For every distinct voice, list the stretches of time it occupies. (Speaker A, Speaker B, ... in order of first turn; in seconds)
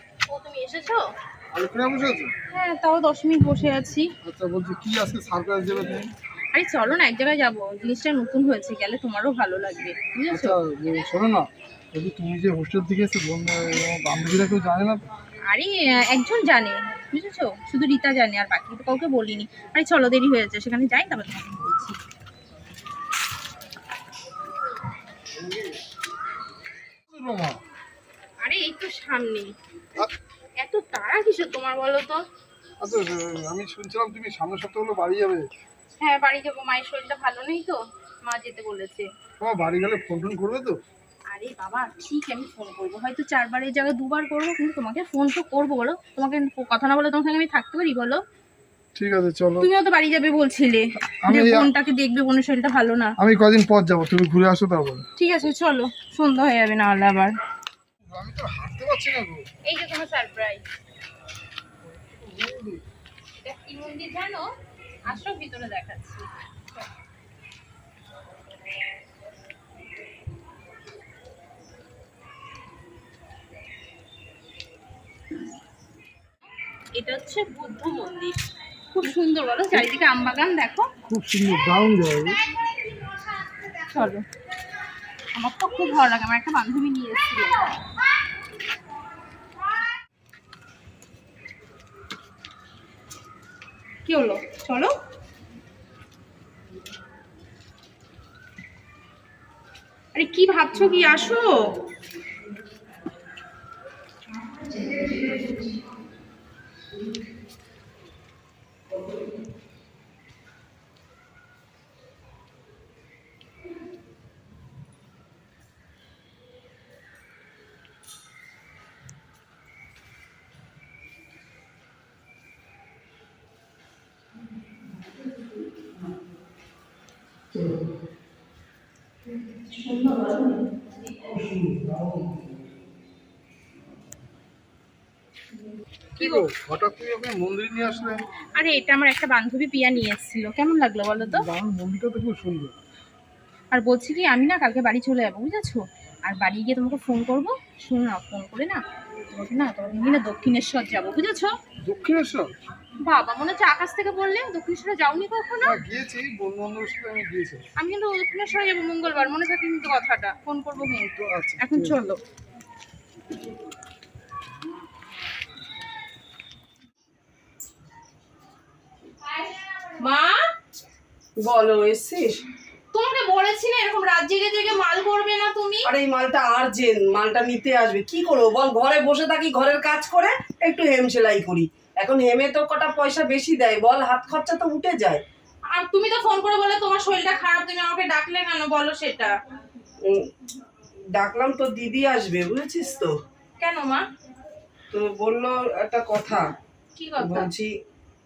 Speaker A: 0.3-1.1, 2.5-4.1, 6.5-10.6, 15.4-22.0, 28.4-29.5, 30.6-32.2, 36.0-39.1, 41.3-48.2, 49.6-53.1, 55.2-57.3, 59.7-60.6, 63.4-64.5, 65.1-66.3, 76.9-80.9, 83.9-84.2, 85.3-87.7, 94.0-94.9, 100.1-101.7, 129.8-130.5, 136.2-136.5, 138.6-141.5, 143.7-148.8, 149.3-151.5, 153.0-155.8, 157.8-162.2, 170.0-170.4, 172.9-175.9, 185.7-189.3, 193.6-194.1, 197.0-197.5
Speaker B: 1.5-2.3, 4.2-6.1, 10.3-15.1, 25.4-25.6, 27.1-27.6, 32.8-35.5, 39.4-40.8, 49.0-49.7, 51.2-51.7, 53.2-55.0, 58.0-59.5, 61.9-62.8, 81.0-82.5, 131.2-132.5, 136.2-138.3, 141.2-142.8, 151.8-152.6, 155.6-157.7, 161.2-162.0
Speaker C: 171.4-172.4, 175.8-185.2, 191.2-193.1, 194.9-196.4, 197.2-197.7